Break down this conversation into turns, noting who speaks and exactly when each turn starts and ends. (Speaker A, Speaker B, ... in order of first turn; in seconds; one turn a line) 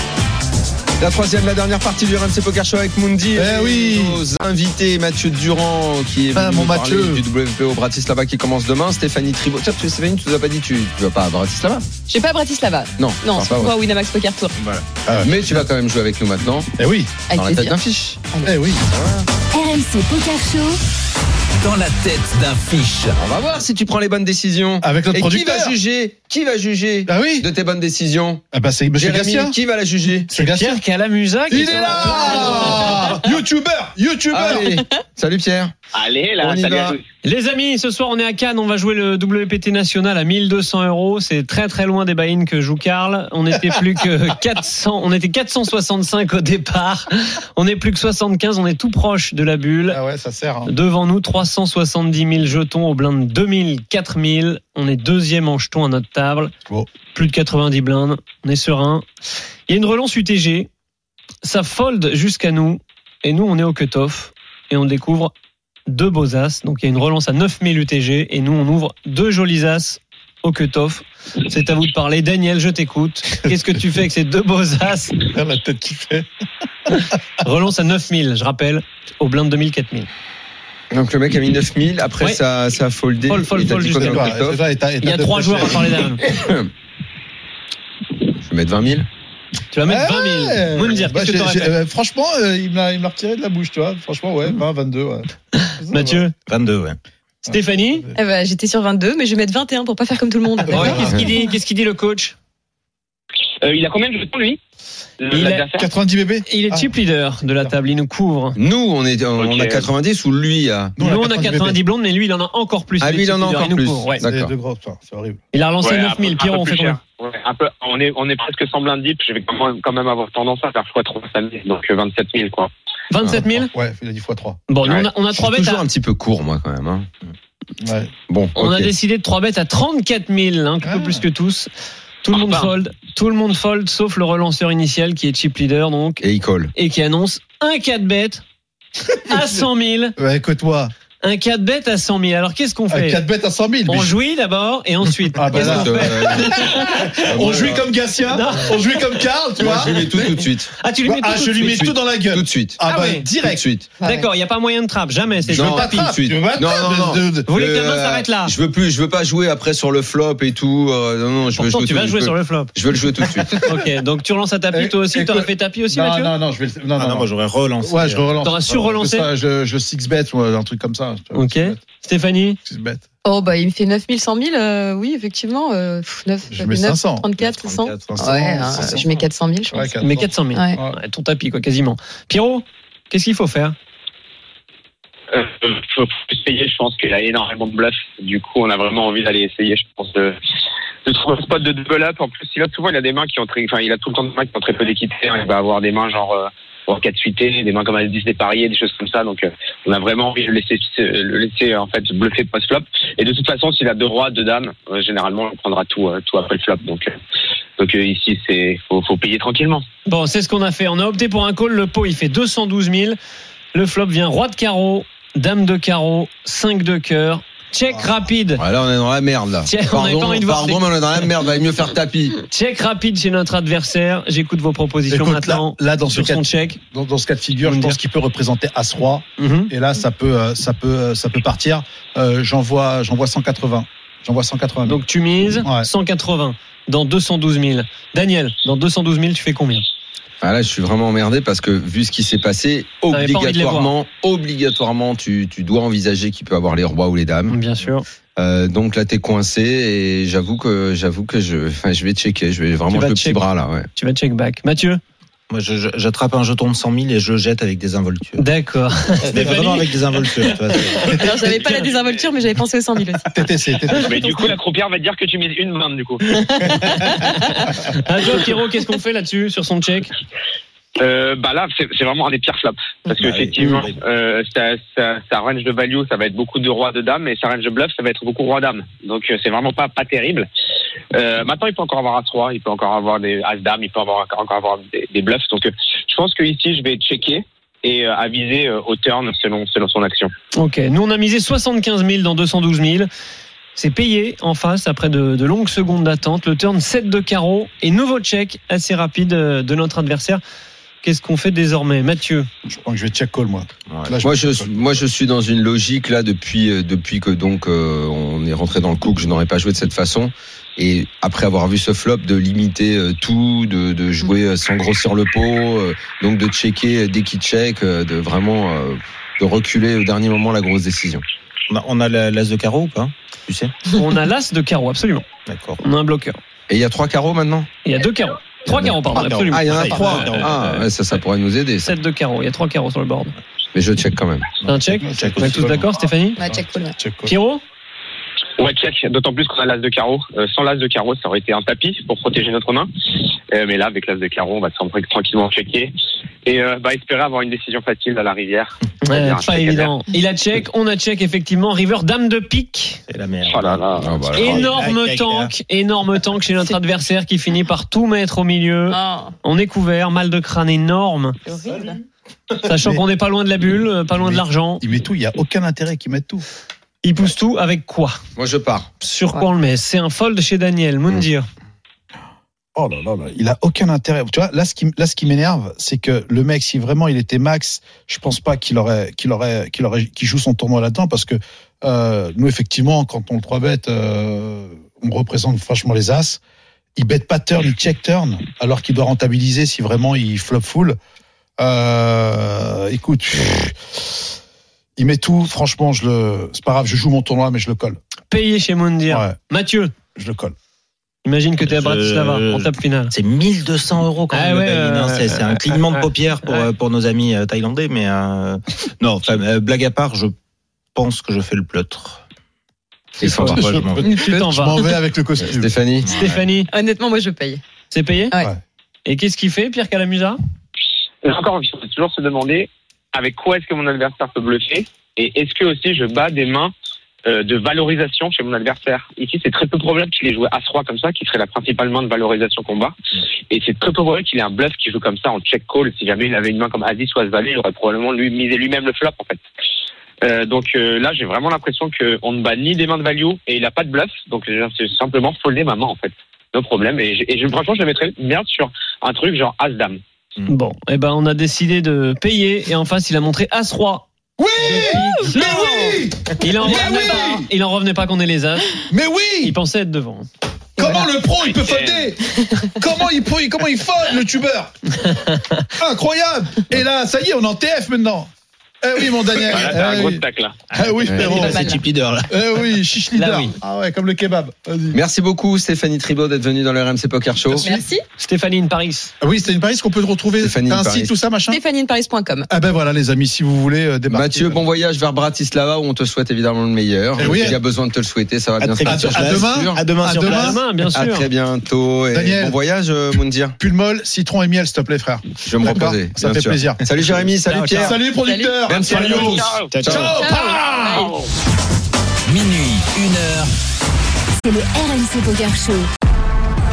Speaker A: 1.0-11.9
Speaker B: 3.4-4.2
Speaker B: 6.3-7.2
Speaker C: 12.1-14.6
Speaker A: 13.0-13.8
Speaker A: 14.6-16.7
Speaker B: 15.1-15.7
Speaker B: 16.8-17.1
Speaker C: 17.3-17.8
Speaker A: 17.3-18.2
Speaker B: 18.4-18.9
Speaker A: 18.9-19.2
Speaker D: 19.5-20.8
Speaker E: 21.6-23.2
Speaker A: 23.2-28.4
Speaker B: 24.8-25.8
Speaker B: 27.1-27.5
Speaker B: 28.5-29.6
Speaker A: 28.9-30.3
Speaker B: 30.3-30.8
Speaker F: 30.3-33.2
Speaker B: 31.5-34.8
Speaker A: 34.3-35.8
Speaker G: 35.9-37.0
Speaker A: 36.4-37.0
Speaker F: 37.2-50.0
Speaker B: 49.9-50.7
Speaker F: 50.6-56.5
Speaker F: 57.1-59.1
Speaker F: 59.7-60.7
Speaker F: 61.4-65.3
Speaker F: 65.9-75.3
Speaker B: 75.3-76.3
Speaker F: 77.0-80.1
Speaker A: 80.9-84.6
Speaker F: 83.3-84.3
Speaker B: 83.8-86.1
Speaker F: 85.0-86.2
Speaker A: 86.2-86.7
Speaker A: 88.4-89.1
Speaker F: 89.7-91.7
Speaker B: 89.9-96.3
Speaker F: 95.9-96.3
Speaker H: 96.5-97.0
Speaker B: 97.5-98.2
Speaker F: 97.5-98.1
Speaker C: 98.1-101.3
Speaker B: 100.7-101.4
Speaker F: 100.7-102.3
Speaker G: 103.6-104.6
Speaker G: 105.2-105.9
Speaker F: 105.3-105.7
Speaker B: 105.8-107.0
Speaker F: 106.5-108.6
Speaker A: 108.6-111.0
Speaker G: 109.4-109.9
Speaker B: 111.0-111.8
Speaker F: 111.0-114.2
Speaker A: 113.0-114.5
Speaker B: 114.2-115.4
Speaker F: 115.5-117.0
Speaker G: 115.8-122.7
Speaker F: 123.1-123.7
Speaker B: 123.3-124.6
Speaker F: 124.7-125.8
Speaker A: 124.9-127.1
Speaker B: 127.8-128.1
Speaker A: 128.3-128.9
Speaker F: 128.6-131.7
Speaker B: 130.8-131.3
Speaker F: 132.2-138.4
Speaker G: 132.3-132.7
Speaker A: 136.2-136.7
Speaker F: 139.1-140.2
Speaker B: 140.2-140.9
Speaker F: 141.2-143.2
Speaker B: 142.9-144.2
Speaker F: 143.9-146.9
Speaker B: 145.3-150.5
Speaker A: 145.5-147.9
Speaker F: 148.3-149.3
Speaker A: 149.6-150.7
Speaker F: 150.8-151.9
Speaker B: 151.0-153.6
Speaker A: 151.6-152.8
Speaker F: 152.9-153.3
Speaker A: 153.4-153.9
Speaker C: 154.0-154.3
Speaker F: 154.0-156.2
Speaker B: 155.5-157.5
Speaker A: 155.5-163.6
Speaker F: 157.5-158.5
Speaker F: 161.5-162.7
Speaker B: 163.4-163.9
Speaker F: 163.5-166.3
Speaker B: 164.7-171.8
Speaker H: 167.0-168.9
Speaker F: 168.4-169.3
Speaker F: 171.3-172.6
Speaker B: 172.7-173.0
Speaker C: 173.2-180.0
Speaker B: 176.5-177.3
Speaker H: 177.4-179.2
Speaker B: 178.1-179.2
Speaker B: 179.7-181.0
Speaker F: 180.0-183.8
Speaker G: 185.3-190.4
Speaker G: 191.1-207.2
Speaker G: 207.8-209.9
Speaker F: 210.1-213.2
Speaker F: 213.7-218.6
Speaker A: 218.6-222.4
Speaker F: 219.7-221.3
Speaker F: 222.5-226.8
Speaker B: 225.1-235.9
Speaker F: 227.6-228.0
Speaker F: 229.4-229.7
Speaker F: 234.9-239.9
Speaker A: 240.4-247.6
Speaker F: 243.1-243.9
Speaker F: 247.5-248.1
Speaker A: 248.4-253.9
Speaker F: 252.9-253.4
Speaker F: 253.9-255.0
Speaker H: 255.5-258.5
Speaker F: 258.4-261.9
Speaker H: 259.2-261.2
Speaker B: 261.0-261.6
Speaker C: 261.2-263.4
Speaker B: 263.3-264.5
Speaker G: 264.0-266.4
Speaker C: 266.3-267.7
Speaker F: 267.9-270.1
Speaker G: 271.0-280.5
Speaker H: 273.2-273.9
Speaker G: 281.1-290.3
Speaker F: 290.5-293.1
Speaker F: 293.8-300.4
Speaker F: 301.0-302.5
Speaker B: 302.7-304.7
Speaker A: 304.2-321.2
Speaker H: 321.7-323.8
Speaker F: 323.9-325.3
Speaker H: 325.5-325.8
Speaker F: 325.8-326.4
Speaker A: 326.7-327.7
Speaker F: 327.9-330.9
Speaker H: 328.6-330.5
Speaker A: 329.2-331.9
Speaker F: 331.8-333.4
Speaker A: 333.7-334.5
Speaker H: 334.6-335.8
Speaker F: 334.6-336.4
Speaker B: 334.9-337.4
Speaker C: 336.4-337.0
Speaker F: 337.2-337.6
Speaker G: 338.6-342.9
Speaker G: 343.5-345.9
Speaker G: 346.4-349.9
Speaker F: 349.0-353.0
Speaker H: 353.1-355.5
Speaker G: 353.5-354.1
Speaker A: 354.0-354.6
Speaker F: 354.3-361.4
Speaker C: 358.9-359.4
Speaker C: 361.4-362.0
Speaker F: 362.6-364.8
Speaker B: 362.7-363.0
Speaker B: 364.2-366.5
Speaker F: 367.0-368.2
Speaker A: 368.4-368.9
Speaker F: 369.0-371.5
Speaker B: 372.8-386.4
Speaker B: 387.0-391.0
Speaker B: 391.6-394.3
Speaker B: 395.0-398.0
Speaker F: 398.3-399.9
Speaker B: 399.1-399.4
Speaker B: 400.1-400.5
Speaker F: 401.2-403.1
Speaker H: 401.6-410.4
Speaker F: 404.3-406.7
Speaker H: 410.9-412.2
Speaker A: 413.2-413.6
Speaker H: 413.2-414.2
Speaker B: 413.4-415.8
Speaker F: 414.0-415.0
Speaker A: 415.4-416.1
Speaker H: 416.1-416.4
Speaker F: 416.1-416.7
Speaker C: 416.7-417.6
Speaker F: 417.9-418.3
Speaker B: 418.3-418.6
Speaker F: 419.1-420.4
Speaker G: 421.2-426.7
Speaker G: 427.3-432.9
Speaker G: 433.5-439.4
Speaker G: 440.2-450.0
Speaker F: 450.5-454.1
Speaker B: 454.4-457.5
Speaker F: 454.6-458.8
Speaker C: 456.8-457.2
Speaker B: 458.9-459.6
Speaker F: 459.4-460.3
Speaker B: 460.8-464.8
Speaker C: 460.8-461.1
Speaker G: 461.4-462.1
Speaker C: 462.4-462.7
Speaker F: 465.0-465.6
Speaker B: 465.8-468.3
Speaker B: 468.8-471.8
Speaker G: 469.3-470.6
Speaker H: 471.1-472.3
Speaker C: 471.2-471.8
Speaker B: 472.3-475.0
Speaker F: 473.1-473.6
Speaker A: 474.9-477.7
Speaker B: 477.5-477.9
Speaker C: 477.6-478.0
Speaker F: 478.2-479.1
Speaker B: 479.2-481.6
Speaker A: 480.4-481.1
Speaker C: 481.5-482.5
Speaker B: 482.5-484.6
Speaker A: 484.1-489.8
Speaker B: 487.2-487.6
Speaker H: 488.6-490.6
Speaker B: 488.9-490.6
Speaker F: 490.3-491.3
Speaker A: 490.9-493.6
Speaker B: 492.1-492.6
Speaker B: 493.6-501.1
Speaker A: 495.4-498.0
Speaker C: 498.1-498.6
Speaker A: 498.7-500.1
Speaker G: 498.7-500.1
Speaker H: 499.7-500.2
Speaker C: 500.1-501.1
Speaker G: 501.0-501.2
Speaker E: 502.3-503.5
Speaker D: 504.4-505.9